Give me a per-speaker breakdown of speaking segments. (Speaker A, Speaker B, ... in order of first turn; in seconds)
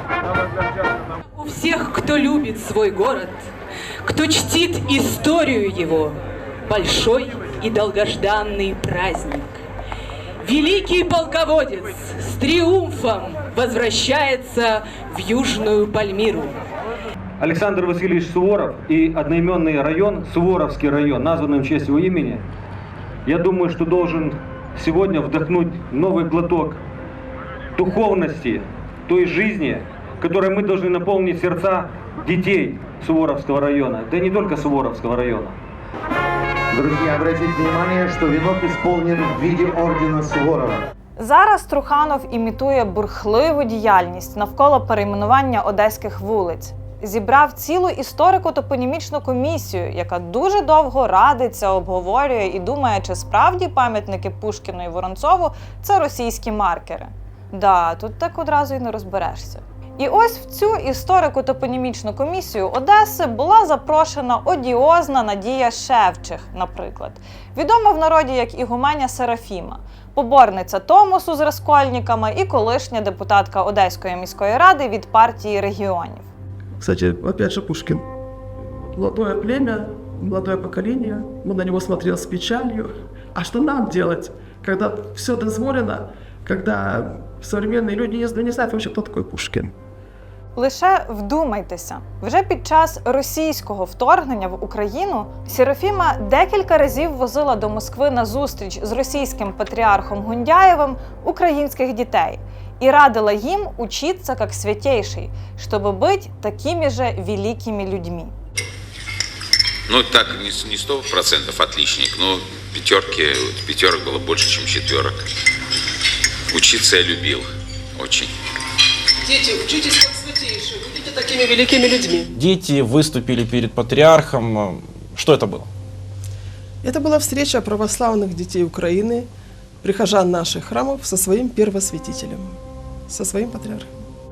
Speaker A: 1.4-3.5, 4.0-9.6, 10.4-16.6
Speaker B: 17.4-22.4, 23.3-26.8, 27.8-35.6
Speaker C: 36.9-39.0, 39.9-40.4
Speaker D: 41.2-76.3, 90.6-108.3
Speaker E: 76.8-78.0, 78.9-89.7, 119.3-120.4, 121.0-122.3
Speaker F: 109.9-115.2, 116.5-118.3
Speaker G: 122.3-125.7
Speaker H: 126.8-129.3, 129.8-133.9